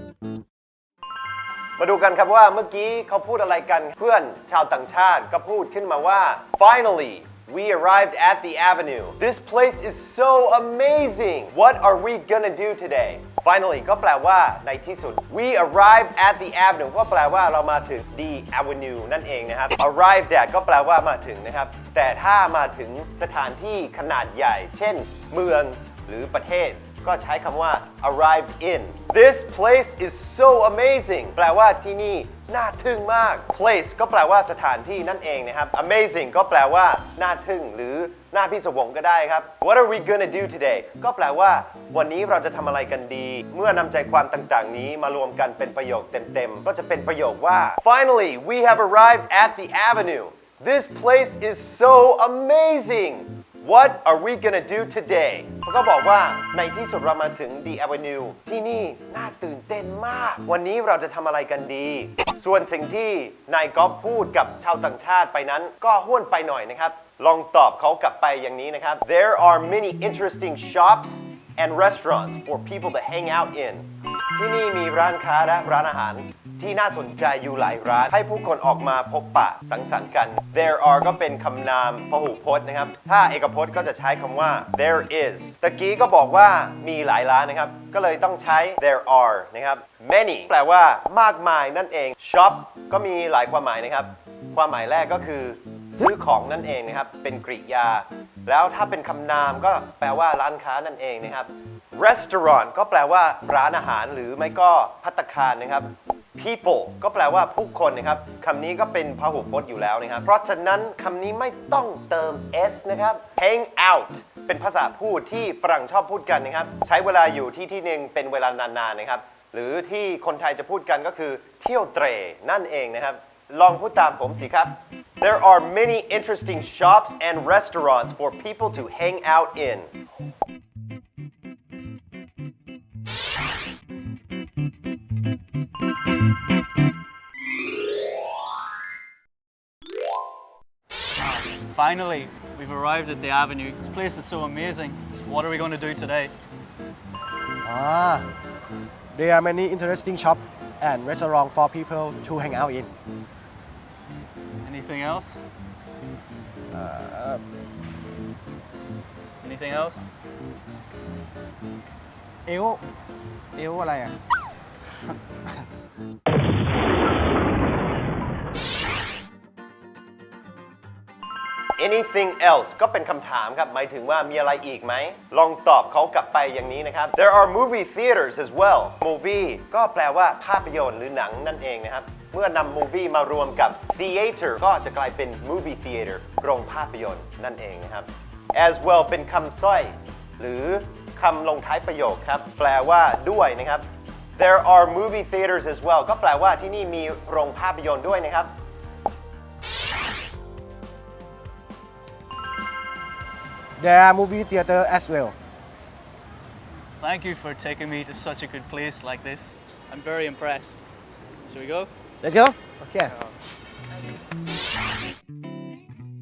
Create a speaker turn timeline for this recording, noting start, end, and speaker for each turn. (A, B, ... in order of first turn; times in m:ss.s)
0:01.8-2:09.9 A
2:21.2-2:26.3 B
2:27.6-2:28.3 C
2:29.1-2:33.0 C
2:34.6-2:35.4 B
2:36.7-2:37.4 C
2:39.4-2:40.0 B
2:42.4-2:42.8 C
2:43.5-2:44.2 C
2:51.8-3:18.5 A
3:23.8-3:25.4 C
3:27.0-3:30.8 B
3:31.5-3:31.9 B
3:32.2-3:33.1 C